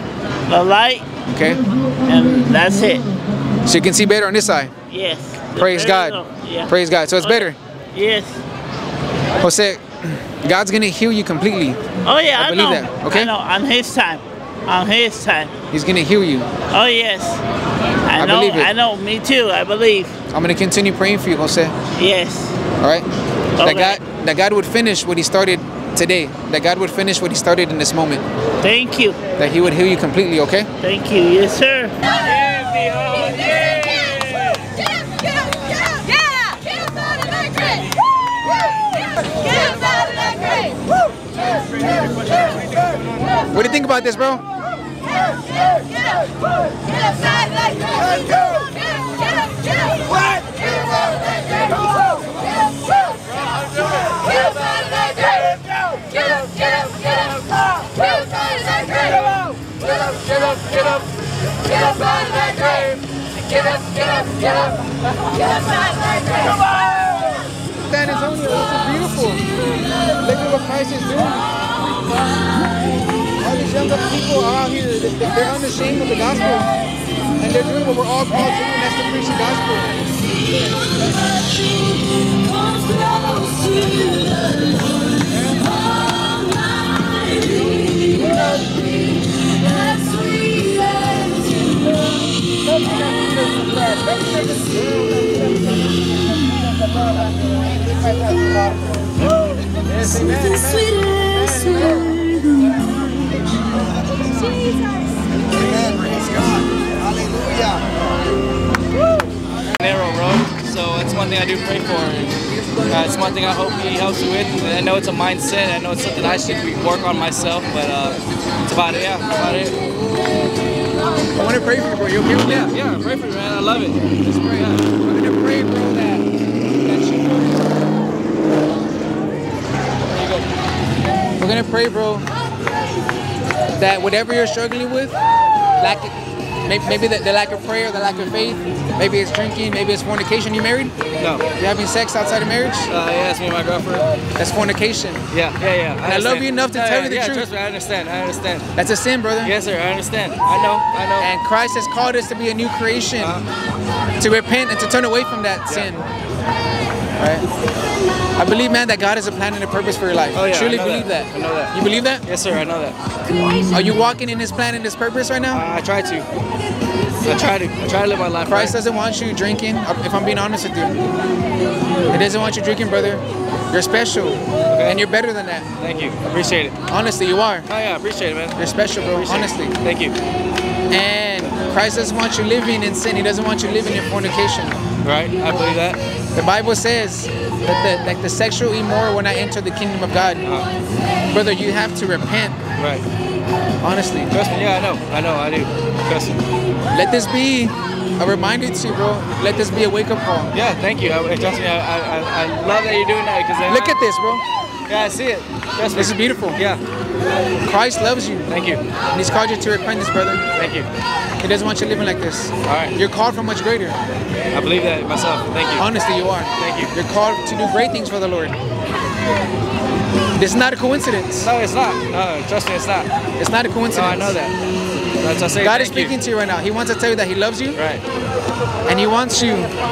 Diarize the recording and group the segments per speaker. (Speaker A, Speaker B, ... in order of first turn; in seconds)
Speaker A: 0.5-1.1, 2.0-3.0, 4.9-8.4, 12.0-15.5, 16.7-17.4, 18.1-20.1, 21.9-22.6, 23.6-24.0, 28.6-29.2, 30.8-33.1, 33.8-34.1
Speaker B: 1.3-1.6, 3.6-4.7, 5.6-6.2, 6.7-7.6, 9.4-11.8, 12.4-13.3, 15.7-16.5, 18.2-18.7, 20.3-21.7, 22.8-23.1, 23.6-28.2, 29.4-30.7, 43.5-44.4, 67.8-69.4, 70.2-71.4, 73.4-76.7, 77.4-79.9, 121.3-122.7, 124.2-126.2, 126.8-127.7, 131.4-132.3, 133.8-135.2, 135.8-136.1, 136.6-140.9, 141.6-142.9, 144.3-145.2, 146.0-147.5, 148.8-149.5, 151.2-153.4, 154.2-156.1, 157.2-157.4, 158.4-162.2, 163.7-165.6, 168.5-171.0, 172.1-175.7, 176.9-177.7, 178.6-179.7, 180.9-184.8, 186.3-190.4, 191.3-192.6, 193.8-194.3, 196.9-200.5, 203.7-204.4, 205.9-206.6, 207.7-208.5, 209.1-210.4, 211.4-214.0, 215.8-218.6, 220.3-221.5, 223.4-224.3, 225.6-227.8, 228.8-229.8
Speaker C: 32.7-33.4, 53.5-54.1, 62.2-62.8, 99.9-100.9, 109.8-112.4, 112.9-119.8, 122.7-124.8, 130.1-130.4, 141.2-141.4, 142.9-144.0, 145.3-148.7, 149.4-151.3, 153.2-153.4, 160.3-161.7, 162.2-162.9, 165.5-166.3, 167.2-168.7, 174.7-175.0, 175.8-176.7, 177.7-180.1, 185.0-186.0, 192.8-193.0, 194.3-196.4, 200.5-203.9, 204.9-206.8, 208.5-208.8, 210.5-210.9, 212.6-212.9, 214.5-215.8, 216.6-216.9, 221.4-223.1, 223.9-224.5, 225.2-226.1, 227.7-228.0
Speaker D: 47.8-48.6, 49.9-52.0, 103.5-104.6, 105.3-107.9